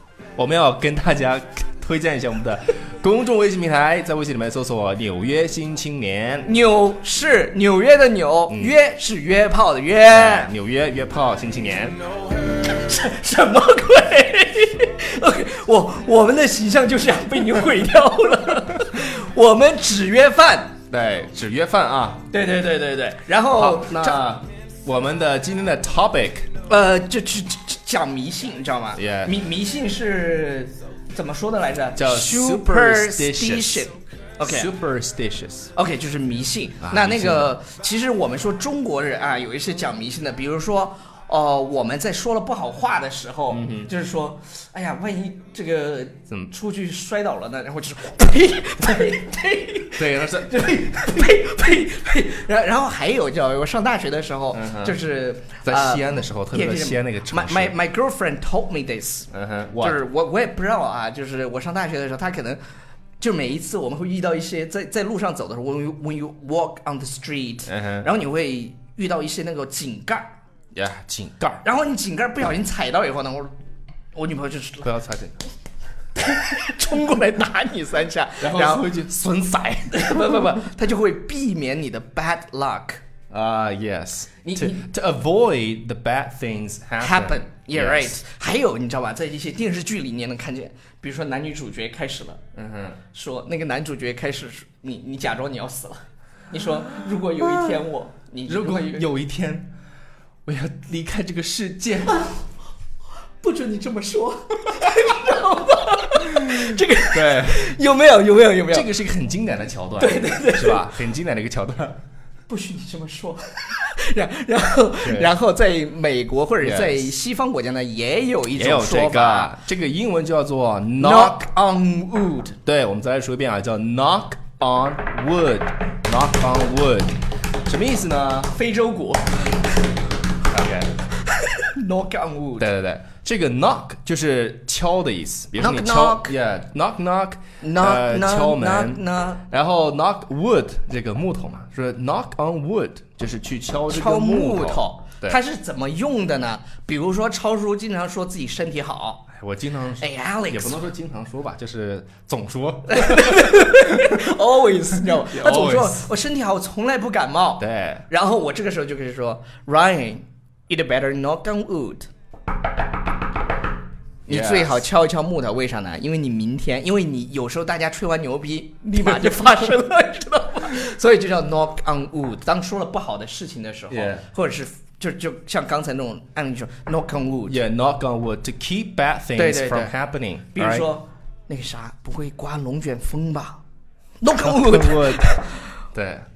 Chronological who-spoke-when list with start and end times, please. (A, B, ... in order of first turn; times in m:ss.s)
0:00.4-0:06.5 A
0:06.4-0:10.5 B
0:08.5-0:08.8 A
0:10.1-0:12.0 A
0:12.6-0:20.8 B
0:20.9-0:22.3 A
0:22.3-0:24.2 B
0:23.6-0:26.5 A
0:26.7-0:34.7 B
0:29.0-0:29.3 A
0:32.0-0:33.9 A
0:34.4-0:35.7 A
0:35.8-1:02.6 B
0:36.8-0:37.5 A
0:43.5-0:43.9 A
0:50.0-0:50.6 A
0:54.5-0:55.0 A
0:55.6-0:57.8 A
0:59.3-1:00.0 A
1:03.2-1:10.3 B
1:07.7-1:08.1 A
1:10.7-1:11.6 A
1:11.6-1:13.5 B
1:14.1-1:14.9 B
1:14.8-1:15.4 A
1:16.2-1:18.9 B
1:18.4-1:20.3 A
1:19.9-1:23.0 B
1:23.3-1:28.2 A
1:24.4-1:24.9 B
1:27.0-1:32.4 B
1:32.6-1:33.0 A
1:33.1-1:39.1 B
1:38.5-1:39.7 A
1:40.5-1:42.3 A
1:43.4-1:48.9 B
1:46.4-1:47.7 A
1:48.7-1:52.0 A
1:50.0-1:50.9 B
1:52.5-1:59.5 B
1:55.0-1:55.3 A
1:56.6-1:57.1 A
1:58.6-2:01.4 A
2:01.0-2:02.6 B
2:02.6-2:08.5 A
2:08.5-2:09.7 B
2:10.5-2:10.9 A
2:11.4-2:12.7 B
2:12.6-2:25.4 A
2:15.6-2:16.4 B
2:17.6-2:19.4 B
2:23.9-2:29.2 B
2:29.3-2:33.6 A
2:30.0-2:30.8 B
2:32.9-2:42.1 B
2:35.3-2:36.0 A
2:37.6-2:38.1 A
2:44.3-2:44.8 A
2:44.3-2:57.6 B
2:53.9-2:54.2 A
2:57.5-3:00.9 A
2:59.4-3:00.0 B
3:00.5-3:03.6 B
3:04.2-3:05.7 B
3:04.4-3:05.4 A
3:05.9-3:06.3 A